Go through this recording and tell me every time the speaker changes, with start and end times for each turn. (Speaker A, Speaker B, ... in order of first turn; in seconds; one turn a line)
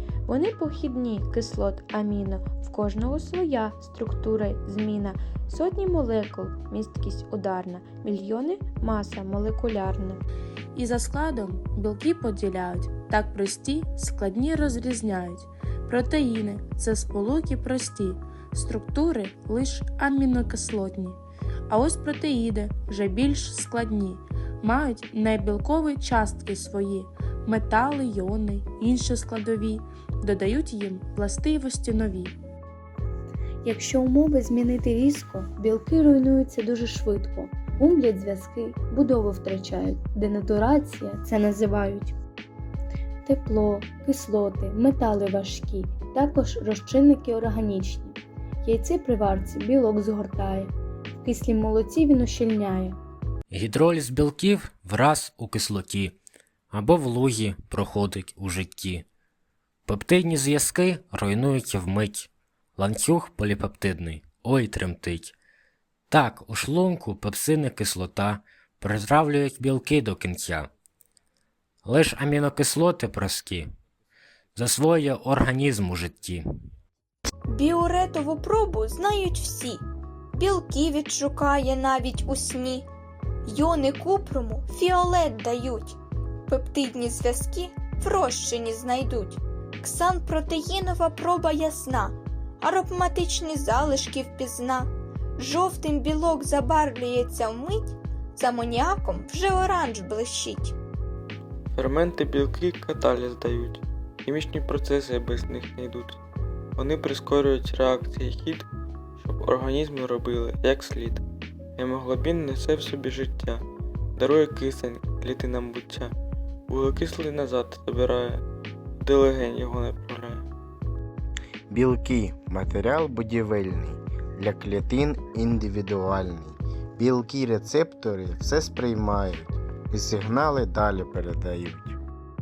Speaker A: 0.2-10.2
Speaker B: 10.7-21.2
Speaker B: 21.7-32.3
Speaker C: 33.6-42.2
Speaker C: 43.2-53.0
Speaker D: 53.5-56.2
Speaker D: 56.7-59.0
Speaker D: 59.9-65.3
Speaker D: 66.1-70.7
Speaker D: 71.8-73.7
Speaker D: 74.5-76.5
Speaker E: 77.5-82.9
Speaker E: 83.5-100.8
Speaker F: 101.7-106.2
Speaker F: 106.8-111.2
Speaker F: 111.8-116.1
Speaker F: 116.7-118.4
Speaker F: 119.0-120.5
Speaker G: 121.7-131.9